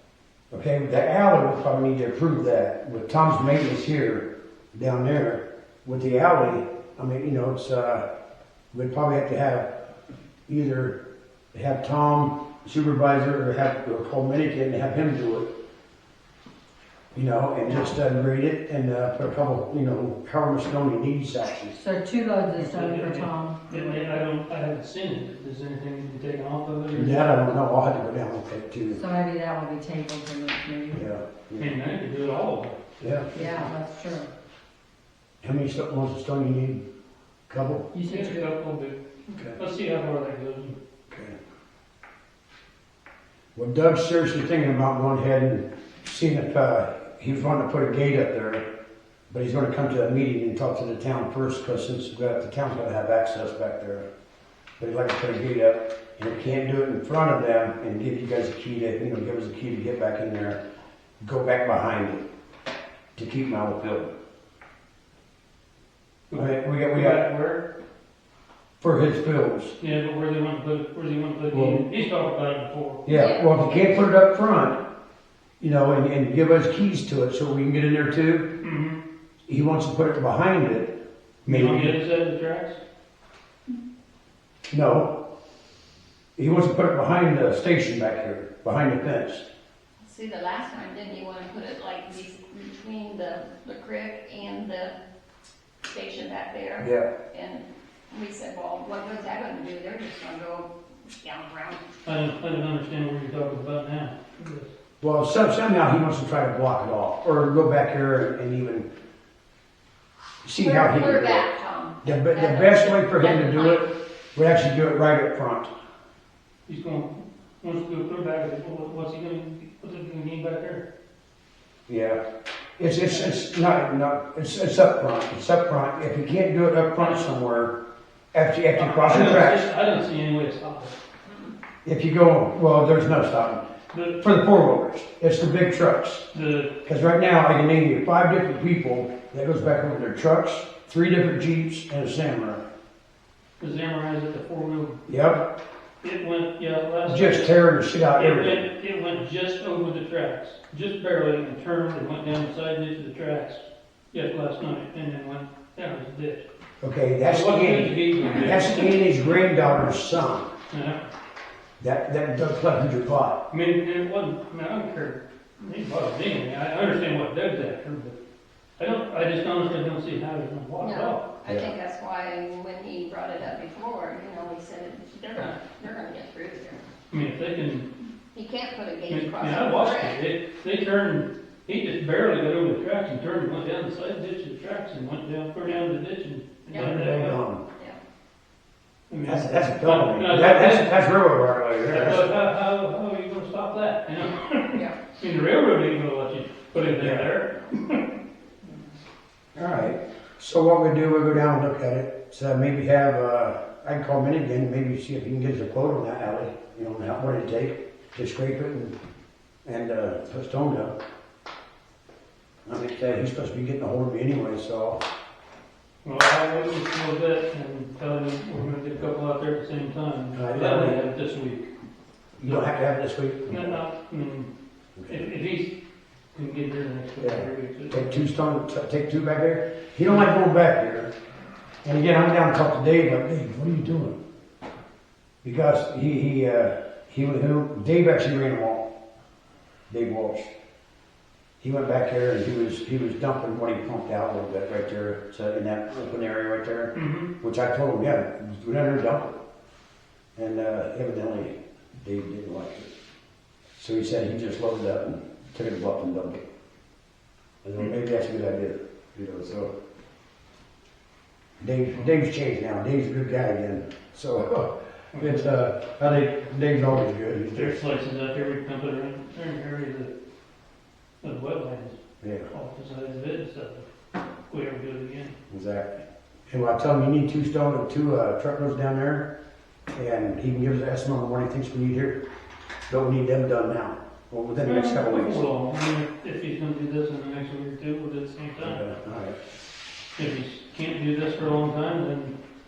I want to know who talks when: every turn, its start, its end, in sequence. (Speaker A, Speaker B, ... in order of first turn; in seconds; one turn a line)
Speaker A: 0.5-8.0
Speaker A: 8.7-9.7
Speaker A: 10.5-11.0
Speaker A: 11.5-15.5
Speaker A: 17.1-21.8
Speaker B: 21.7-24.0
Speaker C: 22.6-27.5
Speaker A: 26.9-29.0
Speaker B: 28.9-31.1
Speaker A: 30.9-31.8
Speaker C: 31.6-32.8
Speaker A: 33.0-33.3
Speaker C: 33.3-33.7
Speaker B: 33.3-34.3
Speaker A: 35.4-36.8
Speaker A: 37.5-37.9
Speaker B: 37.9-38.5
Speaker C: 38.1-40.8
Speaker A: 39.3-39.6
Speaker A: 41.1-41.4
Speaker A: 43.5-48.6
Speaker A: 49.3-54.1
Speaker A: 54.8-60.6
Speaker A: 61.2-62.2
Speaker A: 63.2-64.1
Speaker C: 66.3-67.6
Speaker A: 66.3-67.2
Speaker A: 68.8-69.7
Speaker C: 69.8-73.1
Speaker A: 71.5-71.8
Speaker A: 73.0-74.8
Speaker D: 73.1-73.5
Speaker A: 75.6-78.5
Speaker C: 78.6-79.0
Speaker A: 79.5-80.9
Speaker A: 81.5-82.0
Speaker C: 81.5-82.8
Speaker A: 84.7-85.1
Speaker A: 86.4-89.5
Speaker D: 90.0-95.0
Speaker D: 95.9-101.8
Speaker A: 96.8-97.1
Speaker C: 102.0-104.7
Speaker A: 105.0-108.9
Speaker A: 110.4-111.5
Speaker D: 110.6-113.9
Speaker A: 112.0-115.7
Speaker C: 116.7-120.8
Speaker A: 121.9-122.2
Speaker A: 122.8-127.7
Speaker C: 127.0-127.3
Speaker A: 128.3-129.7
Speaker C: 128.8-130.9
Speaker A: 131.8-133.6
Speaker C: 133.9-134.2
Speaker A: 134.1-136.2
Speaker C: 136.3-136.7
Speaker A: 136.8-142.6
Speaker C: 143.6-145.0
Speaker A: 145.1-145.4
Speaker C: 146.0-147.5
Speaker A: 147.1-148.6
Speaker C: 148.1-156.5
Speaker A: 156.8-160.5
Speaker C: 157.2-159.3
Speaker C: 160.7-161.1
Speaker A: 161.8-163.4
Speaker C: 163.5-168.2
Speaker C: 168.8-171.3
Speaker D: 170.8-176.8
Speaker A: 171.4-171.7
Speaker C: 177.1-177.9
Speaker D: 178.3-180.2
Speaker C: 179.1-187.4
Speaker A: 186.7-187.6
Speaker C: 189.1-190.9
Speaker A: 189.3-192.3
Speaker C: 191.9-198.2
Speaker D: 194.7-195.0
Speaker A: 196.9-197.3
Speaker A: 199.6-208.9
Speaker A: 209.7-210.9
Speaker A: 212.7-215.0
Speaker C: 216.0-221.7
Speaker A: 220.3-221.0
Speaker A: 222.4-223.7
Speaker C: 222.4-222.7
Speaker C: 223.5-224.5
Speaker C: 225.1-225.8
Speaker C: 226.3-228.2
Speaker A: 227.2-231.1
Speaker A: 231.8-234.2
Speaker A: 235.4-238.9
Speaker A: 239.9-240.5
Speaker A: 241.6-249.3
Speaker C: 246.9-247.3
Speaker A: 250.4-252.9
Speaker A: 253.8-256.4
Speaker A: 257.6-259.7
Speaker A: 261.6-267.8
Speaker C: 265.1-265.5
Speaker C: 267.5-270.1
Speaker C: 271.2-272.0
Speaker A: 272.2-272.5
Speaker C: 272.5-273.9
Speaker C: 274.5-275.4
Speaker A: 275.5-279.3
Speaker A: 279.9-282.2
Speaker A: 282.9-285.4
Speaker C: 284.6-288.8
Speaker A: 288.6-289.4
Speaker C: 290.2-292.4